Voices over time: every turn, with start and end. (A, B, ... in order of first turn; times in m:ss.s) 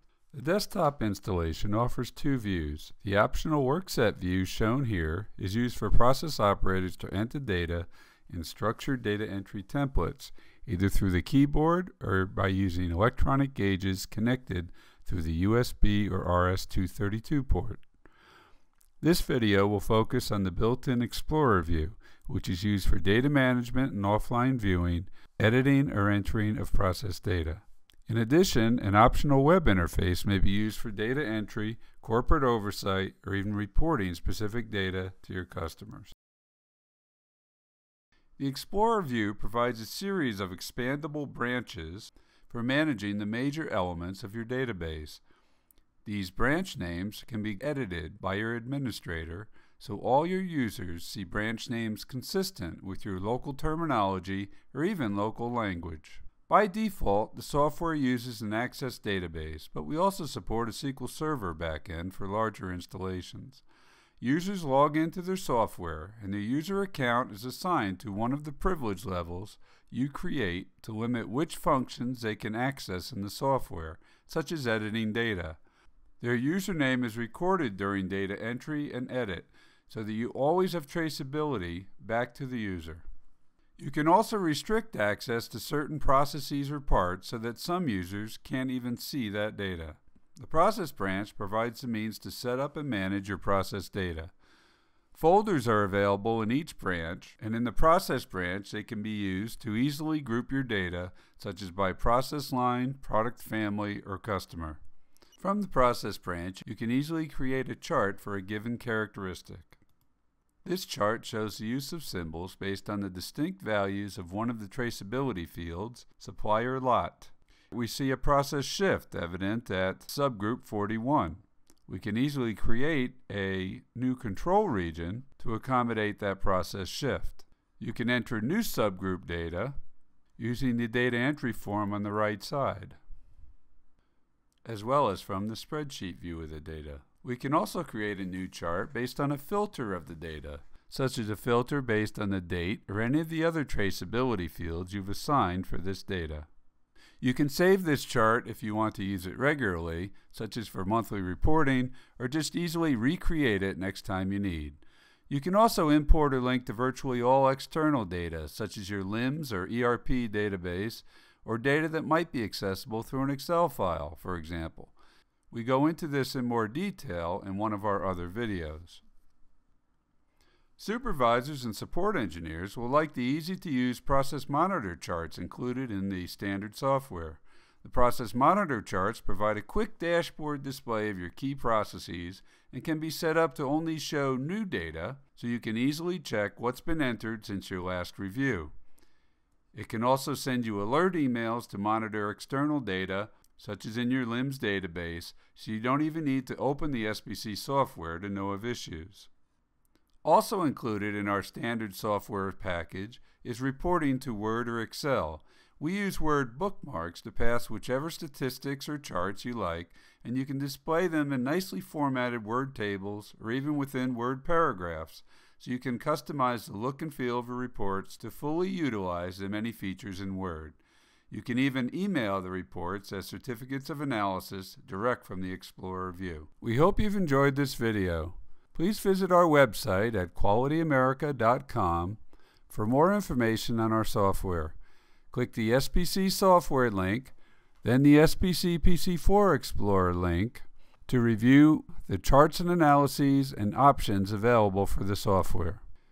0:00.3-0:17.8 A
0:19.0-0:36.1 A
0:38.4-0:45.2 A
0:46.0-1:03.6 A
1:04.2-1:15.6 A
1:16.2-1:23.0 A
1:23.8-1:34.3 A
1:35.1-1:44.8 A
1:45.4-1:49.8 A
1:50.6-2:09.8 A
2:10.4-2:13.0 A
2:14.6-2:26.5 A
2:27.2-2:44.9 A
2:45.5-2:49.0 A
2:50.8-3:08.7 A
3:09.7-3:19.3 A
3:20.2-3:40.8 A
3:41.3-3:54.8 A
3:55.3-4:05.8 A